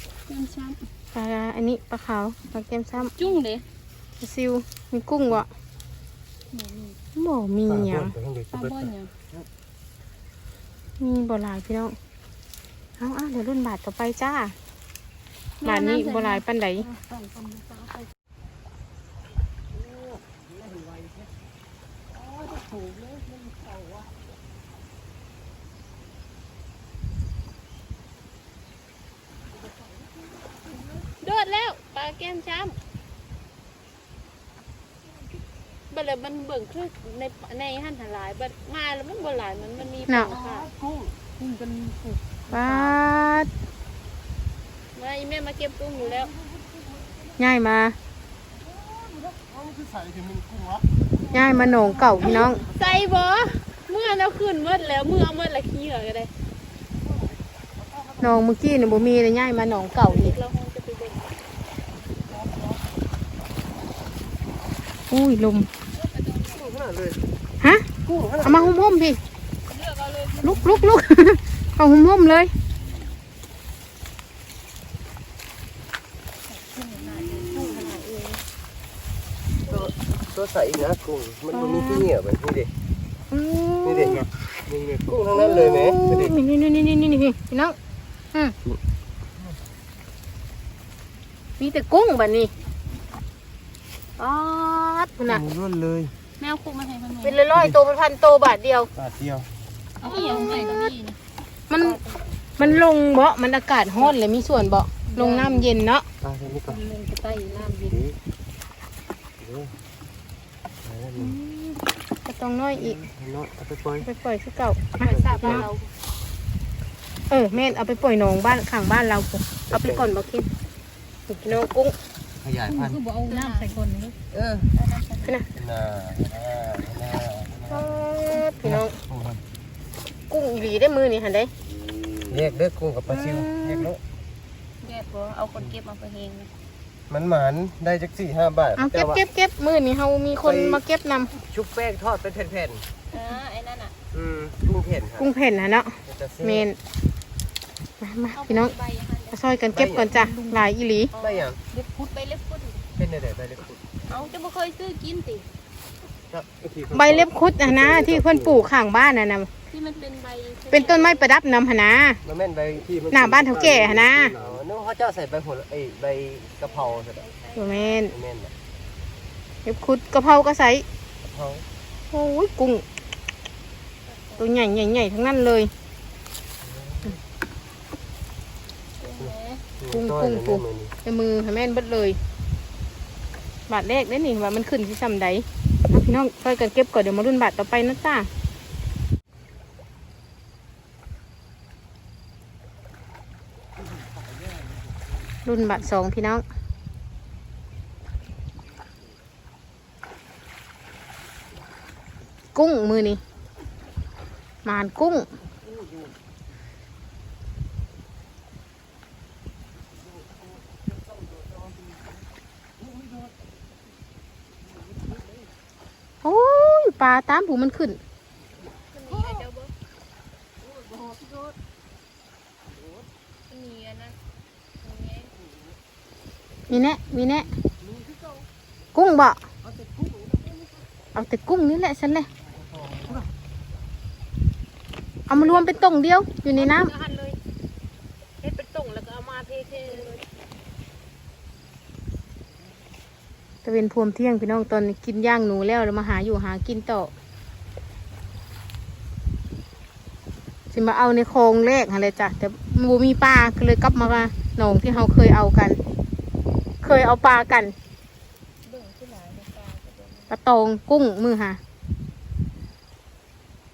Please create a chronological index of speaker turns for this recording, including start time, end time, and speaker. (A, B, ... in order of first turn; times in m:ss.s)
0:00.3-0:00.9 A
0:01.1-0:03.1 B
0:03.0-0:03.6 A
0:04.2-0:05.5 B
0:06.5-0:07.0 A
0:07.2-0:08.2 B
0:07.7-0:08.9 C
0:08.5-0:09.1 A
0:11.0-0:12.0 B
0:13.0-0:14.6 B
0:15.6-0:18.1 A
0:15.6-0:16.9 B
0:31.0-0:32.8 A
0:35.9-0:40.7 A
0:40.1-0:40.4 B
0:40.5-0:41.1 C
0:41.4-0:43.0 A
0:42.5-0:43.5 B
0:45.0-0:46.4 A
0:47.4-0:48.0 B
0:49.1-0:50.8 C
0:51.3-0:52.6 B
0:51.3-0:56.3 A
0:58.2-1:00.4 B
1:00.0-1:01.4 A
1:05.1-1:05.7 B
1:05.9-1:06.8 A
1:06.6-1:07.2 C
1:07.6-1:07.9 B
1:08.0-1:08.8 C
1:08.4-1:09.2 B
1:09.7-1:11.0 A
1:10.4-1:12.5 B
1:16.5-1:18.0 A
1:17.5-1:18.4 B
1:19.7-1:22.7 C
1:21.5-1:22.1 B
1:23.3-1:24.2 B
1:23.8-1:26.4 C
1:25.3-1:27.8 B
1:31.6-1:32.5 B
1:34.2-1:35.4 B
1:35.3-1:36.1 C
1:36.4-1:37.5 A
1:37.2-1:38.9 B
1:39.0-1:39.5 C
1:40.0-1:41.2 A
1:40.0-1:40.9 B
1:41.7-1:42.0 B
1:41.8-1:42.4 A
1:42.6-1:46.1 B
1:45.1-1:45.7 A
1:46.2-1:46.8 C
1:46.7-1:48.0 A
1:47.9-1:48.2 C
1:49.4-1:49.7 C
1:50.8-1:51.4 C
1:51.2-1:53.0 B
1:52.7-1:54.1 C
1:54.0-1:55.7 B
1:55.0-1:55.9 A
1:55.0-1:55.7 C
1:57.3-2:00.5 B
1:59.7-2:00.1 C
2:01.3-2:02.0 B
2:02.4-2:03.0 C
2:02.7-2:04.1 B
2:03.2-2:03.9 A
2:04.3-2:04.7 C
2:04.7-2:05.3 A
2:05.6-2:08.1 C
2:07.7-2:09.0 B
2:08.6-2:09.4 C
2:10.3-2:11.5 B
2:12.3-2:14.0 C
2:13.1-2:13.9 B
2:14.8-2:16.5 A
2:17.1-2:19.2 C
2:18.8-2:21.3 B
2:20.4-2:20.8 C
2:21.4-2:22.8 C
2:23.1-2:24.0 A
2:24.1-2:25.3 C
2:25.2-2:26.8 B
2:26.1-2:26.7 C
2:28.0-2:28.7 B
2:28.3-2:29.4 A
2:29.3-2:31.1 B
2:29.7-2:30.2 C
2:30.1-2:32.9 A
2:31.2-2:31.6 C
2:33.0-2:33.8 C
2:34.1-2:35.5 A
2:36.3-2:38.7 C
2:36.9-2:39.5 B
2:39.7-2:41.3 A
2:40.7-2:42.2 B
2:42.2-2:47.2 C
2:43.1-2:44.4 B
2:46.6-2:48.1 A
2:47.6-2:48.1 B
2:48.1-2:48.5 C
2:49.6-2:50.8 B
2:51.3-2:51.6 C
2:52.1-2:52.8 B
2:54.1-2:54.6 A
2:54.4-2:55.7 B
2:56.6-2:57.2 C
2:59.0-2:59.6 A
2:59.2-3:00.9 C
2:59.9-3:02.2 B
3:03.7-3:08.3 B
3:15.4-3:16.4 B
3:22.5-3:23.2 B
3:24.6-3:25.3 B
3:36.2-3:38.0 B
3:38.9-3:39.7 A
3:43.5-3:44.2 A
3:44.8-3:45.4 A
3:46.7-3:47.5 B
3:49.0-3:49.4 B
3:51.1-3:52.3 B
3:55.3-3:56.9 B
3:55.3-3:55.8 A
3:56.6-3:57.4 A
3:58.4-4:00.2 A
4:03.6-4:07.1 B
4:10.7-4:15.8 B
4:16.8-4:17.8 B
4:18.6-4:20.4 A
4:20.3-4:21.6 B